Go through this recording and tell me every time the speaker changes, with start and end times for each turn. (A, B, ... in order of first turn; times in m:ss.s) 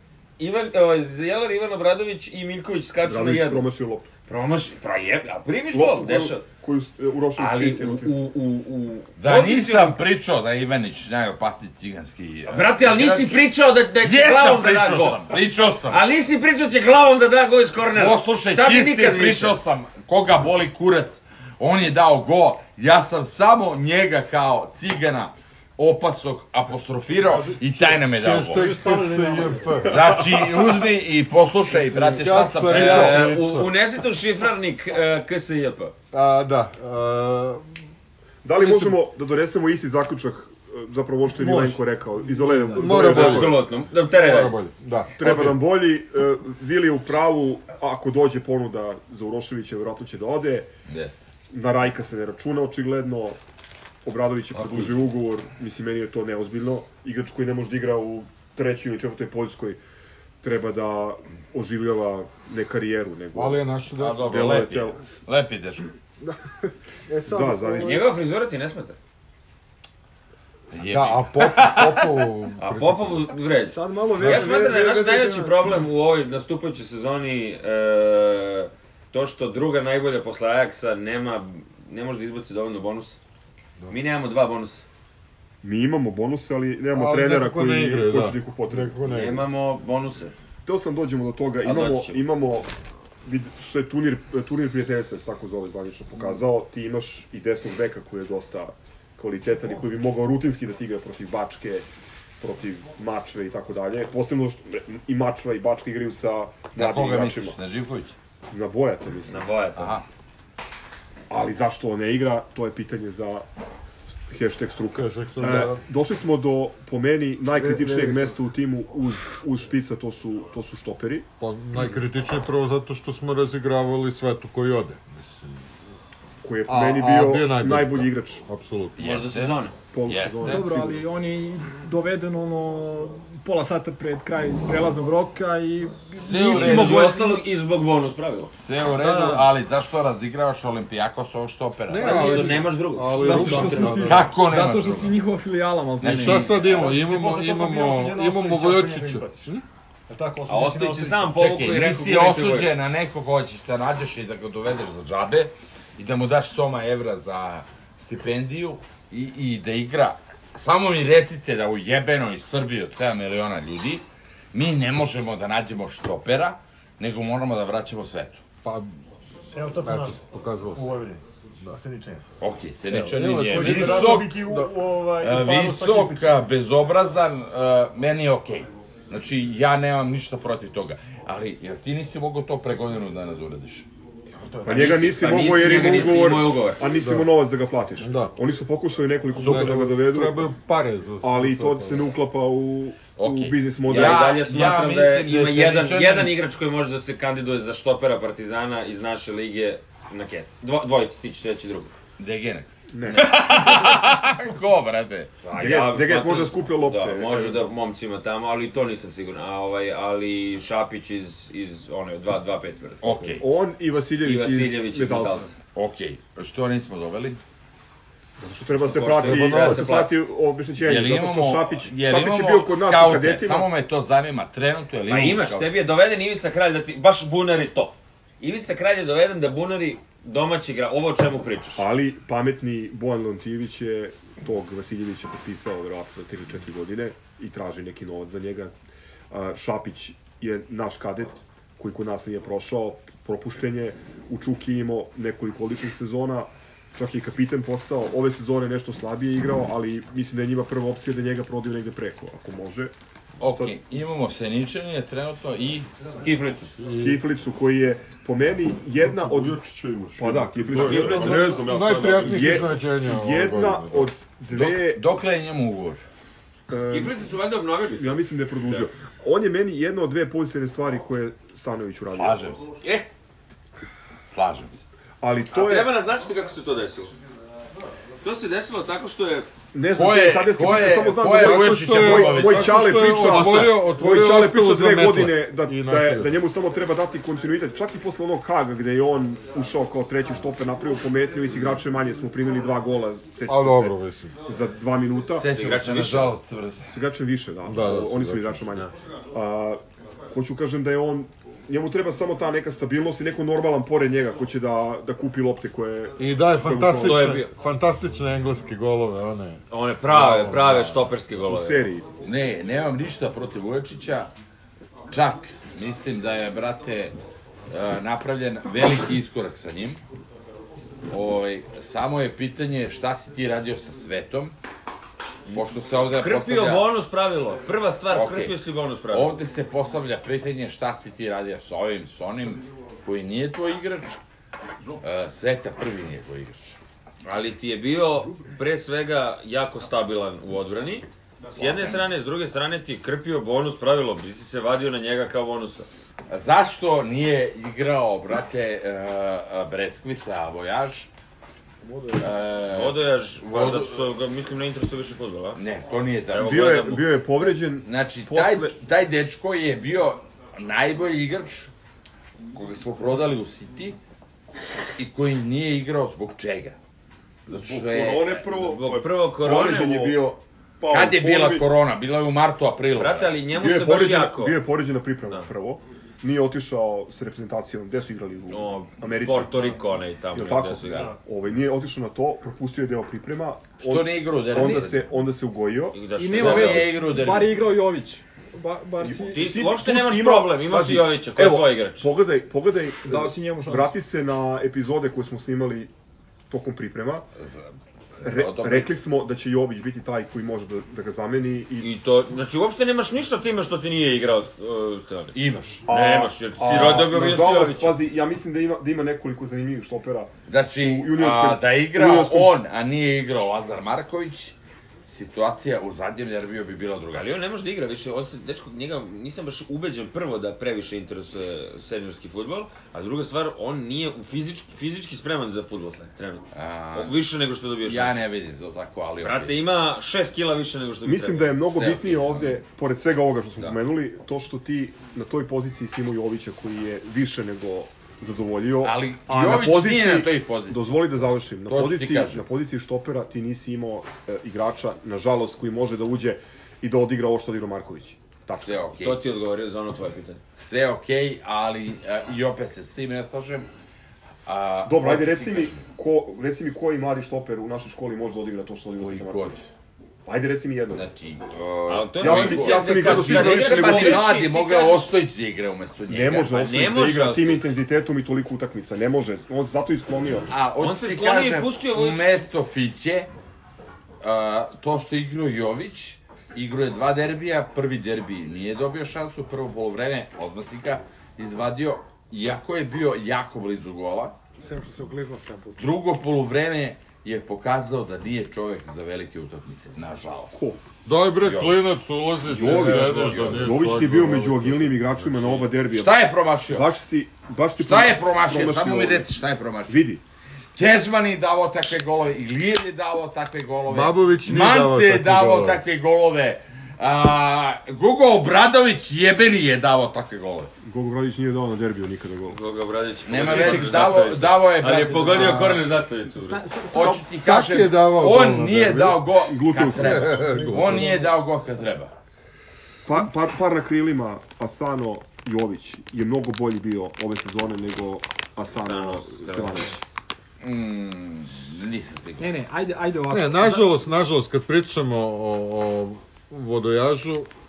0:00.4-0:03.7 A
0:03.0-0:04.1 B
0:04.3-0:06.5 A
0:05.7-0:08.3 B
0:07.4-0:10.0 A
0:09.2-0:13.4 C
0:12.5-0:15.3 A
0:14.0-0:16.0 C
0:15.9-0:19.6 A
0:17.9-0:28.7 C
0:27.5-0:30.5 D
0:28.6-0:29.7 E
0:29.9-0:33.3 C
0:31.7-0:33.7 D
0:32.7-0:35.9 A
0:36.1-0:37.8 D
0:38.4-0:43.6 B
0:38.6-0:38.9 F
0:41.3-0:42.9 F
0:42.7-0:45.6 D
0:42.9-0:44.6 A
0:45.2-0:50.7 B
0:50.9-0:51.2 C
0:51.5-0:53.4 B
0:54.0-0:59.8 B
0:54.5-0:54.9 C
1:00.4-1:03.6 B
1:03.3-1:04.4 D
1:04.0-1:05.9 C
1:04.2-1:05.0 B
1:07.1-1:08.1 E
1:07.3-1:08.1 B
1:07.8-1:09.0 A
1:10.7-1:12.0 C
1:10.7-1:13.3 D
1:12.6-1:23.2 A
1:13.6-1:15.7 E
1:14.2-1:14.6 D
1:23.9-1:24.8 A
1:25.6-1:29.0 B
1:26.9-1:29.5 D
1:29.1-1:30.3 A
1:30.6-1:32.7 B
1:31.6-1:32.3 A
1:33.2-1:41.8 B
1:42.4-1:47.6 B
1:46.7-1:48.1 C
1:48.5-1:49.5 B
1:49.3-1:50.0 A
1:49.8-1:50.0 C
1:51.3-1:53.4 B
1:54.3-2:01.3 B
1:54.9-1:55.8 D
1:57.5-1:58.4 E
2:01.4-2:05.7 D
2:06.4-2:08.4 B
2:06.7-2:09.3 D
2:09.0-2:10.7 C
2:09.0-2:09.8 A
2:09.9-2:11.0 B
2:10.4-2:17.4 F
2:16.2-2:17.1 C
2:16.4-2:18.5 A
2:18.6-2:22.6 C
2:19.0-2:19.5 F
2:21.9-2:24.3 D
2:22.0-2:24.1 A
2:23.2-2:26.5 F
2:23.9-2:25.2 C
2:26.0-2:26.4 C
2:26.0-2:29.6 D
2:26.6-2:29.5 G
2:30.1-2:31.4 G
2:30.4-2:32.8 A
2:31.3-2:48.4 C
2:48.6-2:48.9 D
2:49.5-2:52.2 G
2:49.8-2:51.0 D
2:52.4-2:54.4 C
2:52.9-2:54.7 D
2:53.4-2:56.4 G
2:55.2-3:03.9 C
3:04.4-3:05.0 G
3:04.6-3:10.5 B
3:04.7-3:06.8 A
3:06.9-3:07.3 D
3:08.0-3:08.3 D
3:09.3-3:12.1 D
3:11.2-3:14.4 B
3:13.2-3:16.4 C
3:13.8-3:21.9 A
3:22.2-3:25.3 C
3:22.9-3:23.8 B
3:25.4-3:33.3 A
3:25.5-3:27.7 B
3:33.0-3:33.4 C
3:33.4-3:35.5 B
3:34.2-3:35.5 A
3:35.7-3:37.4 C
3:38.4-3:43.7 B
3:38.7-3:40.2 A
3:39.2-3:39.7 C
3:40.8-3:45.7 C
3:45.1-3:51.9 A
3:51.8-3:58.7 B
3:59.3-4:12.9 B
4:13.4-4:15.9 C
4:13.4-4:13.8 B
4:16.2-4:16.7 A
4:16.8-4:17.2 D
4:17.0-4:19.6 B
4:19.0-4:22.6 H
4:20.2-4:21.6 B
4:20.8-4:21.6 A
4:21.0-4:24.1 D
4:22.1-4:25.0 B
4:24.5-4:26.0 C
4:26.7-4:27.4 B
4:26.9-4:28.2 A
4:27.9-4:32.4 B
4:32.1-4:32.7 C
4:32.8-4:33.1 A
4:34.3-4:34.8 C
4:35.2-4:36.0 B
4:35.5-4:37.1 A
4:38.2-4:39.5 A
4:39.7-4:55.5 B
4:39.9-4:43.8 C
4:41.4-4:46.4 D
4:53.5-4:54.4 D
4:55.4-4:56.9 C
4:55.5-4:56.4 A
4:56.9-5:07.4 B
4:57.6-4:58.9 D
5:06.2-5:11.0 D
5:07.0-5:07.5 A
5:09.7-5:11.9 A
5:11.4-5:12.0 B
5:12.2-5:14.3 C
5:15.1-5:17.1 C
5:17.7-5:20.0 C
5:21.1-5:24.5 C
5:25.5-5:26.9 C
5:26.1-5:29.3 A
5:28.1-5:28.6 C
5:29.1-5:34.2 C
5:35.0-5:36.8 C
5:37.2-5:45.9 A
5:41.5-5:42.0 C
5:46.3-5:51.1 C
5:51.8-5:52.3 E
5:52.2-5:54.1 C
5:52.6-5:55.6 A
5:55.5-5:57.0 C
5:56.3-5:57.1 A
5:56.4-5:58.7 B
5:57.7-6:01.7 C
6:02.5-6:04.0 C
6:05.0-6:06.8 C
6:07.5-6:08.4 C
6:07.5-6:11.6 H
6:08.5-6:10.2 A
6:10.9-6:13.4 C
6:13.0-6:14.6 A
6:13.5-6:19.8 B
6:18.5-6:21.2 A
6:20.3-6:26.0 B
6:20.8-6:21.2 G
6:23.8-6:25.1 C
6:25.9-6:27.0 A
6:26.2-6:29.4 F
6:26.3-6:27.6 C
6:29.0-6:35.9 B
6:29.2-6:32.1 A
6:33.0-6:34.0 F
6:36.5-6:37.2 B
6:37.4-6:38.9 C
6:38.2-6:41.9 B
6:41.8-6:45.3 A
6:45.3-6:45.8 C
6:45.9-6:52.5 B
6:45.9-6:48.0 A
6:50.5-6:54.5 C
6:55.1-6:57.4 C
6:57.1-7:08.2 A
7:06.5-7:07.2 C
7:07.8-7:09.6 C
7:09.2-7:11.6 A
7:11.0-7:28.8 B
7:11.6-7:12.6 C
7:18.8-7:22.4 C
7:28.6-7:29.2 C
7:29.0-7:30.4 A
7:30.6-7:33.7 C
7:34.4-7:35.8 C
7:34.8-7:39.6 B
7:39.0-7:39.6 C
7:40.2-7:41.0 B
7:40.9-7:46.7 C
7:41.9-7:45.1 A
7:42.2-7:44.2 B
7:46.1-7:50.5 B
7:46.5-7:47.6 A
7:50.5-7:53.3 C
7:50.8-7:52.4 A
7:54.2-8:04.4 C
8:04.6-8:05.8 E
8:05.8-8:10.5 C
8:10.5-8:10.8 B
8:11.0-8:15.1 D
8:11.4-8:11.8 C
8:12.5-8:19.3 B
8:12.6-8:13.6 C
8:15.4-8:16.9 C
8:17.8-8:20.0 C
8:19.9-8:20.2 B
8:20.8-8:30.7 C
8:23.9-8:25.8 D
8:30.8-8:32.6 B
8:32.5-8:36.9 A
8:33.2-8:35.8 C
8:36.3-8:37.2 F
8:36.9-8:42.1 C
8:37.4-8:39.2 D
8:39.4-8:40.4 B
8:39.9-8:41.2 D
8:40.6-8:41.1 E
8:43.0-8:50.0 B
8:48.8-8:50.0 A
8:50.6-8:52.5 C
8:52.4-8:54.1 F
8:53.3-8:57.5 D